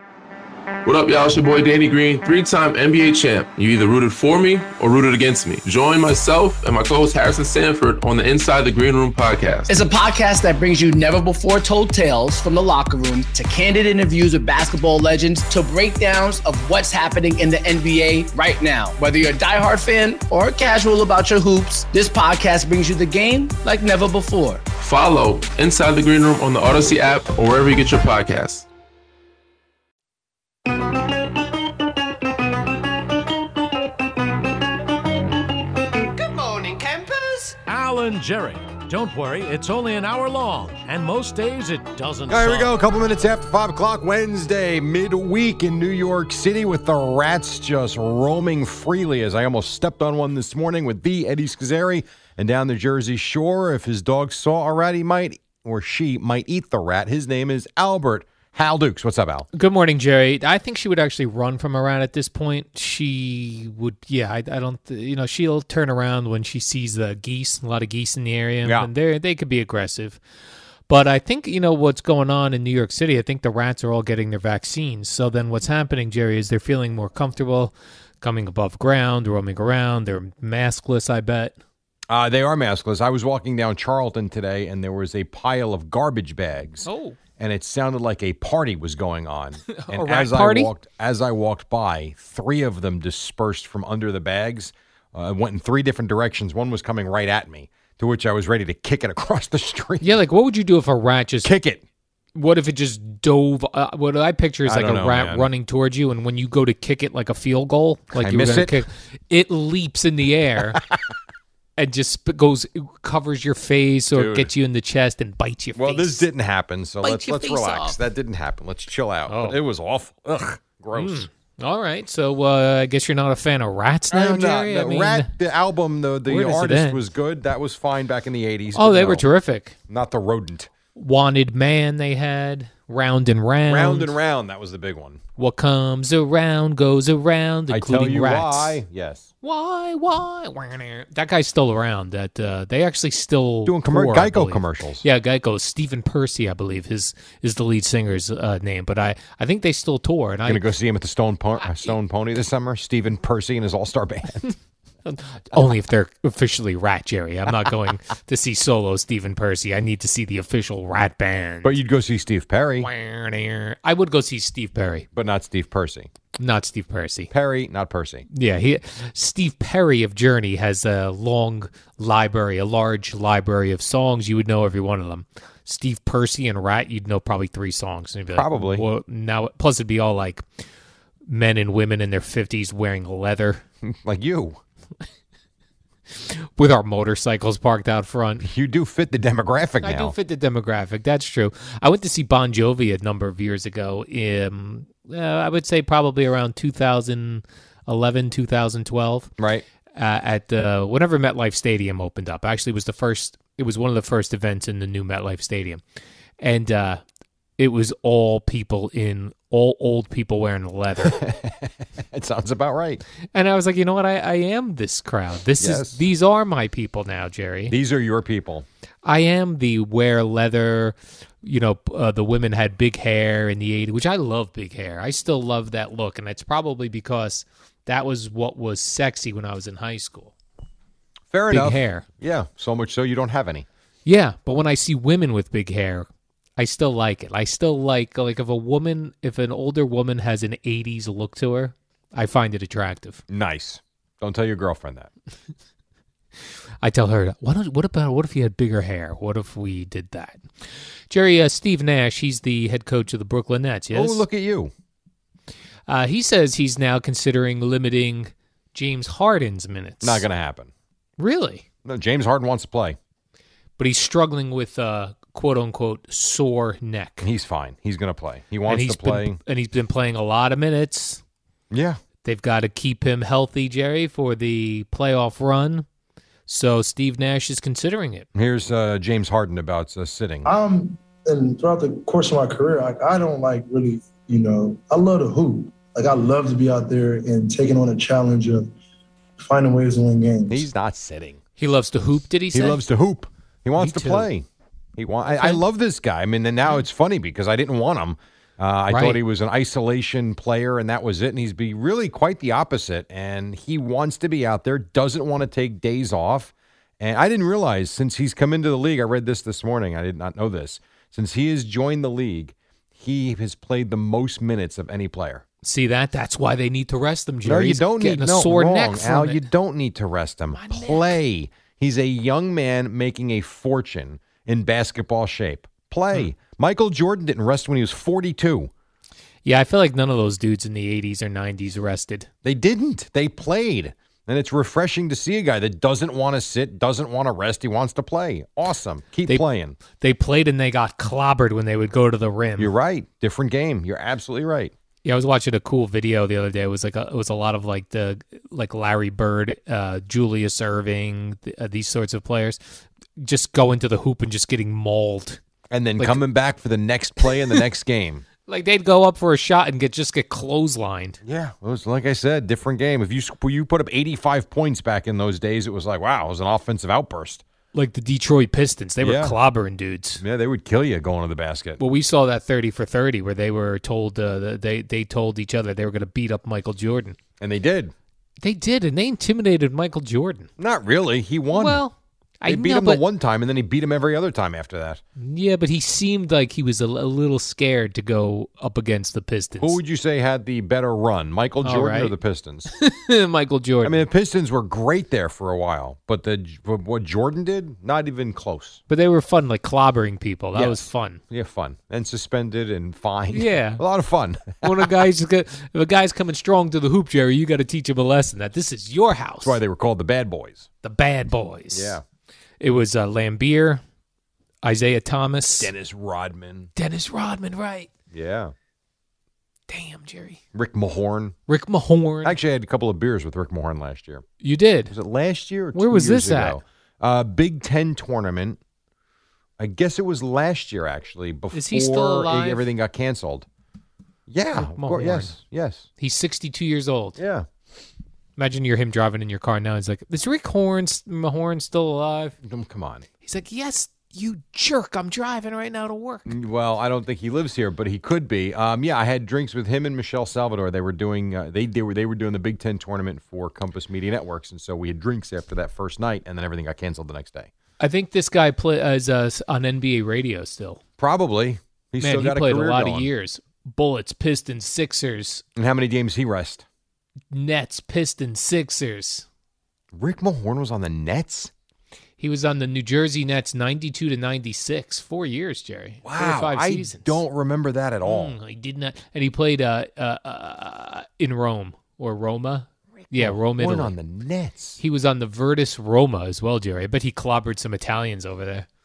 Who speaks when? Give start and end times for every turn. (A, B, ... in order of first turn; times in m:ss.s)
0:00.8-0:09.7 A
0:09.7-0:24.6 B
0:24.8-0:28.6 A
0:37.6-0:42.7 C
0:42.3-0:59.5 D
0:59.5-1:10.2 E
1:08.6-1:08.9 D
1:10.9-1:21.6 E
1:22.1-1:26.9 D
1:26.8-1:27.2 E
1:27.4-1:40.1 D
1:29.7-1:30.7 E
1:40.0-1:41.5 E
1:41.4-1:41.8 D
1:42.3-1:50.8 E
1:44.6-1:45.5 D
1:48.2-1:48.8 D
1:51.8-1:56.2 E
1:54.1-1:54.5 D
1:55.8-2:01.3 D
1:57.0-1:58.0 E
1:59.3-1:59.6 E
2:00.9-2:05.3 E
2:04.1-2:09.2 D
2:06.2-2:07.0 E
2:08.7-2:09.8 E
2:09.9-2:10.7 D
2:10.9-2:14.1 E
2:13.7-2:15.2 D
2:15.4-2:18.8 E
2:17.7-2:19.3 D
2:19.4-2:30.6 E
2:23.6-2:25.0 D
2:30.5-2:34.5 D
2:35.0-2:41.8 E
2:41.6-2:42.9 D
2:42.8-2:45.1 E
2:45.1-2:46.1 D
2:46.4-2:47.3 E
2:47.3-2:48.2 D
2:48.3-3:00.4 E
2:58.3-2:58.8 D
3:01.3-3:03.6 E
3:03.8-3:04.6 D
3:06.1-3:08.5 E
3:08.4-3:10.1 D
3:09.8-3:19.3 E
3:19.4-3:19.6 D
3:20.0-3:25.8 E
3:26.4-3:27.0 E
3:27.6-3:31.2 E
3:31.0-3:33.0 D
3:33.3-3:37.7 E
3:35.6-3:36.0 D
3:37.7-3:38.6 D
3:39.0-3:50.3 E
3:51.3-3:53.6 D
3:51.5-3:52.1 E
3:54.0-4:03.2 E
4:03.3-4:05.1 D
4:06.8-4:10.4 E
4:11.1-4:14.2 E
4:13.9-4:14.7 D
4:15.9-4:20.2 E
4:20.0-4:20.7 D
4:21.2-4:21.6 E
4:21.8-4:23.0 D
4:23.8-4:27.3 E
4:27.2-4:29.4 D
4:28.7-4:31.2 E
4:31.7-4:32.0 D
4:32.2-4:35.8 E
4:36.5-4:38.3 E
4:38.3-4:40.5 D
4:40.4-4:48.7 F
4:49.4-4:50.7 F
4:50.5-4:51.4 D
4:51.6-4:52.8 E
4:52.5-4:54.4 D
4:53.8-4:54.3 E
4:55.0-5:15.4 D
4:55.2-4:55.6 E
4:58.9-4:59.2 E
5:15.6-5:19.5 E
5:17.4-5:28.7 D
5:20.5-5:21.1 E
5:29.4-5:32.3 E
5:32.4-5:39.8 D
5:39.3-5:42.7 E
5:42.6-5:44.7 D
5:45.0-5:52.6 E
5:53.2-5:55.4 E
5:55.7-5:58.2 D
5:58.4-6:01.2 E
6:01.2-6:07.4 D
6:07.7-6:10.2 E
6:09.0-6:09.4 D
6:10.2-6:11.8 D
6:11.8-6:17.2 E
6:17.4-6:17.9 D
6:18.4-6:20.5 E
6:20.6-6:21.8 D
6:21.5-6:23.0 E
6:22.4-6:25.0 D
6:25.2-6:29.8 E
6:29.6-6:32.7 D
6:31.6-6:32.1 E
6:32.7-6:34.0 E
6:33.8-6:38.8 D
6:38.9-6:41.2 E
6:40.5-6:44.9 D
6:43.3-6:43.8 E
6:44.6-6:49.6 E
6:49.4-6:50.7 D
6:50.8-6:52.0 E
6:51.7-6:52.0 D
6:52.6-6:53.8 E
6:54.6-6:55.7 E
6:55.6-6:56.7 D
6:56.8-6:57.9 E
6:58.1-6:58.5 D
6:59.7-7:00.4 E
7:00.5-7:01.4 D
7:01.5-7:02.4 E
7:02.2-7:04.2 D
7:04.4-7:04.9 E
7:04.9-7:08.6 D
7:05.7-7:06.6 E
7:09.6-7:13.5 D
7:11.5-7:12.7 E
7:14.3-7:15.9 D
7:14.5-7:15.3 E
7:16.0-7:17.2 E
7:17.2-7:17.5 D
7:18.4-7:22.4 E
7:22.4-7:23.0 D
7:23.2-7:26.3 E
7:26.3-7:37.5 D
7:37.8-7:40.8 E
7:41.0-7:43.1 D
7:42.0-7:45.4 E
7:45.6-7:46.6 D
7:47.3-7:49.2 E
7:49.9-7:51.5 D
7:52.2-7:57.2 E
7:56.0-7:58.3 D
7:58.0-8:03.9 E
8:03.0-8:04.8 D
8:04.8-8:08.7 E